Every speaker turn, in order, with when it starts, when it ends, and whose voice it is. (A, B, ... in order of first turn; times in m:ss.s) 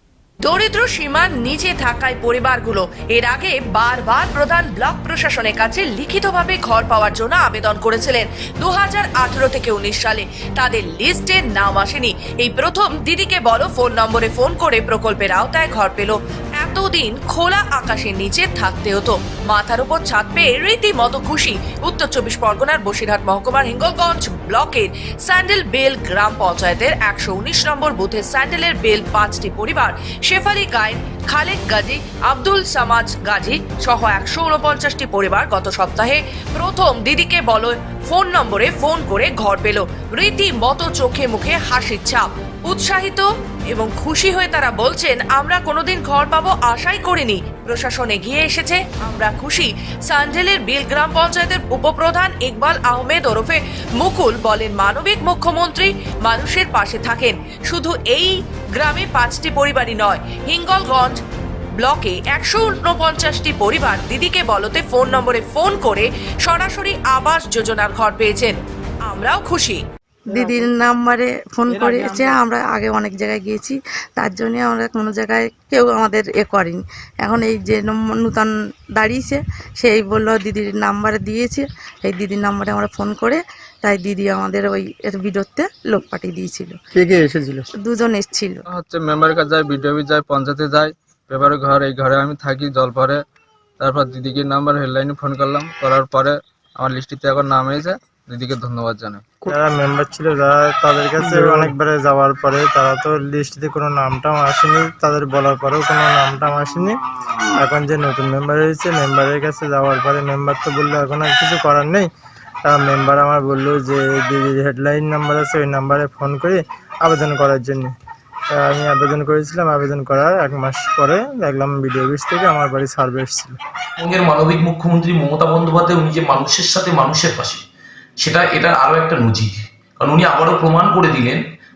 0:00.4-1:01.2 A
1:01.8-1:09.8 A
1:10.3-1:26.8 B
1:27.0-1:27.7 C
1:27.7-1:28.6 B
1:28.7-1:33.2 D
1:33.8-1:39.5 D
1:39.5-1:47.0 C
1:41.2-1:41.8 D
1:47.6-1:52.1 C
1:52.7-1:57.9 C
1:58.6-2:03.6 C
2:04.0-2:07.6 E
2:08.2-2:11.4 E